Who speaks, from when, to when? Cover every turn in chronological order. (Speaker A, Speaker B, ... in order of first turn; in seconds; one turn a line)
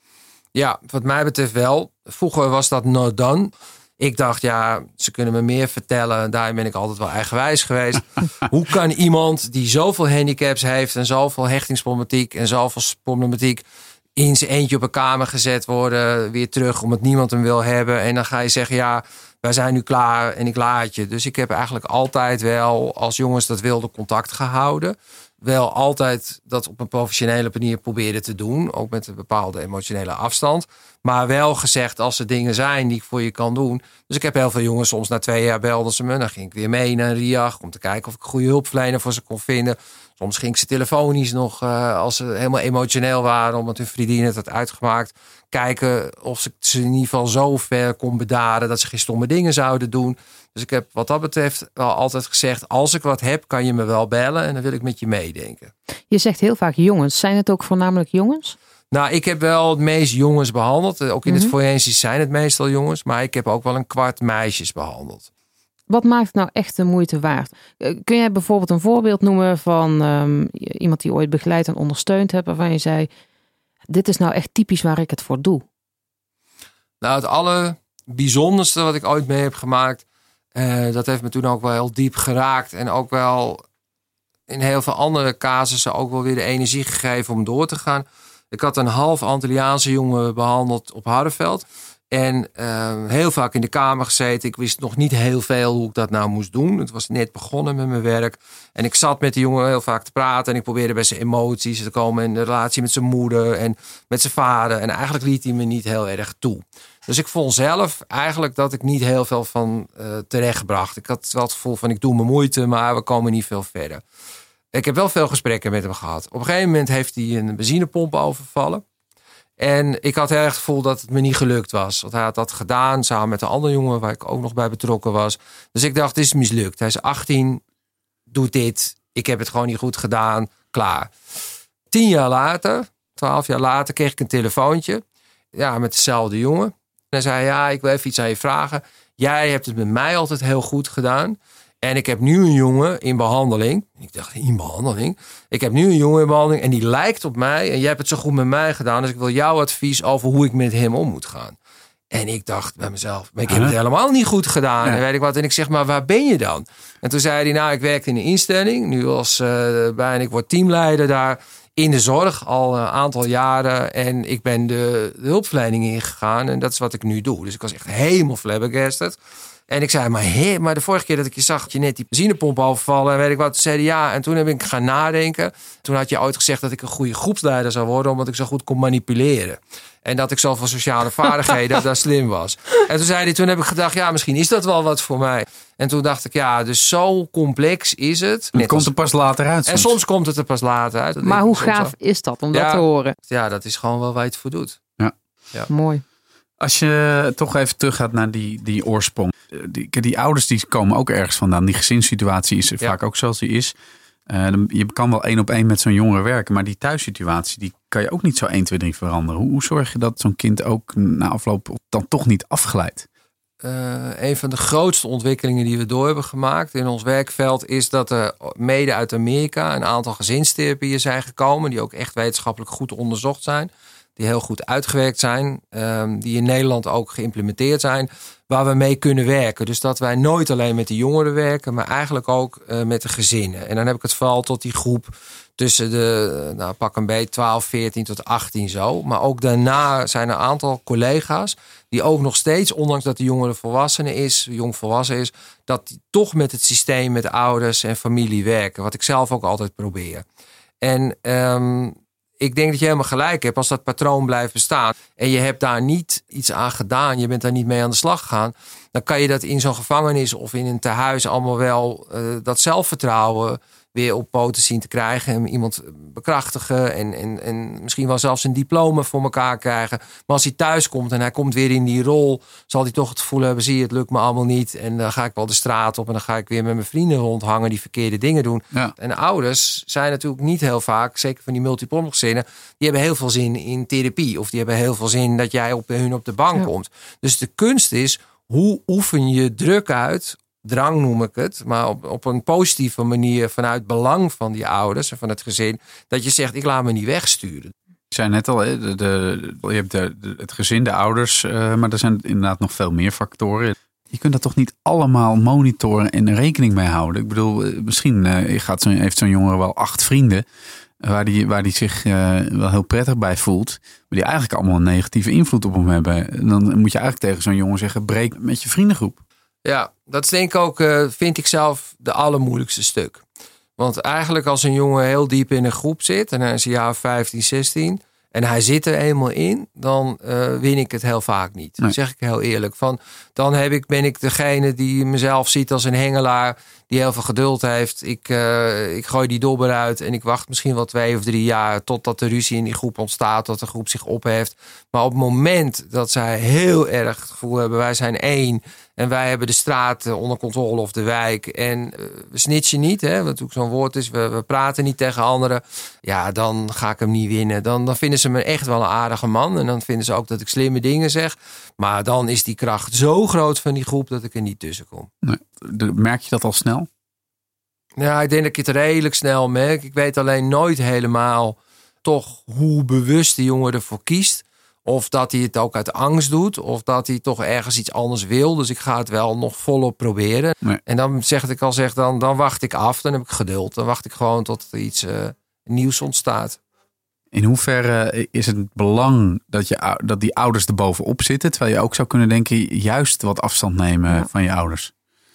Speaker A: 0.5-13.6
Speaker A: 14.2-55.7
Speaker B: 56.1-58.5
Speaker A: 58.9-65.3
Speaker B: 61.2-61.5
Speaker B: 65.9-73.1
Speaker B: 73.9-75.6
Speaker A: 77.0-80.0
Speaker A: 80.5-83.6
Speaker A: 84.5-114.0
Speaker A: 114.7-118.8
Speaker A: 119.6-127.6
Speaker A: 128.3-131.1
Speaker A: 131.9-135.0
Speaker A: 135.5-151.6
Speaker A: 152.1-169.2
Speaker C: 153.5-153.7
Speaker A: 169.7-188.9
Speaker C: 188.5-189.9
Speaker A: 189.7-191.9
Speaker B: 191.2-193.1
Speaker A: 192.5-194.8
Speaker B: 195.7-196.0
Speaker C: 196.6-203.7
Speaker C: 204.3-213.1
Speaker A: 213.6-250.2
Speaker A: 250.8-297.7
Speaker C: 298.1-310.4
Speaker C: 311.0-319.2
Speaker A: 319.6-323.2
Speaker A: 323.8-365.1
Speaker C: 365.2-366.9
Speaker A: 368.0-386.6
Speaker C: 387.3-394.9